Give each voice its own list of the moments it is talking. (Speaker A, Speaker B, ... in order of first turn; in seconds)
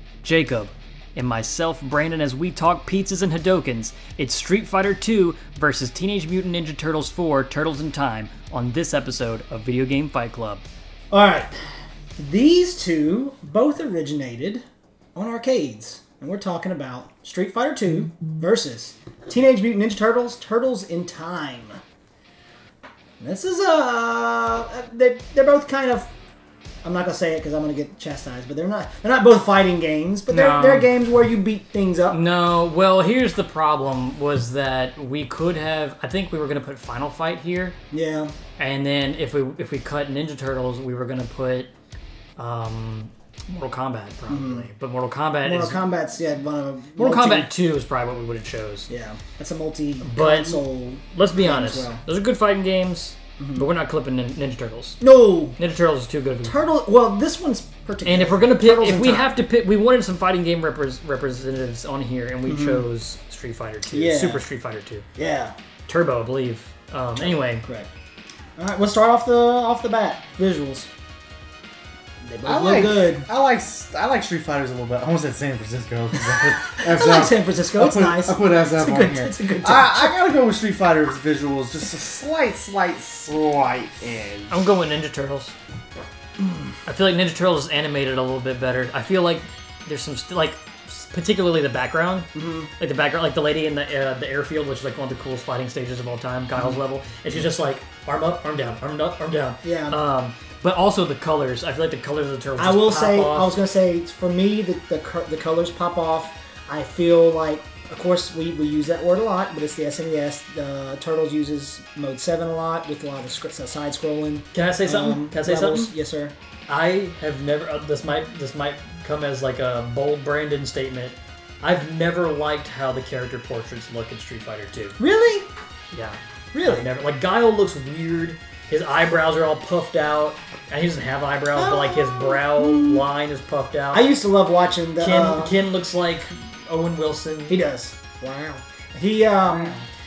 Speaker A: 0.2-10.7, 30.3-30.9, 32.1-37.8, 38.6-41.7, 42.4-45.8, 47.0-48.9, 50.0-55.0, 55.6-56.6, 58.0-65.0, 65.9-67.6, 84.5-85.5, 86.8-92.3, 92.8-103.6, 114.5-115.9, 116.7-125.0, 125.9-134.1, 135.0-137.6, 139.5-139.8
Speaker B: 11.1-11.5, 12.2-14.6, 15.2-21.8, 23.2-26.1, 26.8-32.2, 37.9-38.3, 44.3-44.7, 45.4-47.5, 48.9-52.0, 53.4-53.7, 55.0-55.6, 56.4-59.3, 62.5-62.9, 63.9-64.4, 65.2-65.5, 68.6-70.9, 72.2-73.3, 76.4-80.2, 92.3-92.7, 99.6-100.0, 102.6-116.3, 125.0-125.5, 126.5-126.9, 131.6-133.1, 133.9-135.6, 137.5-139.8
Speaker C: 72.5-84.6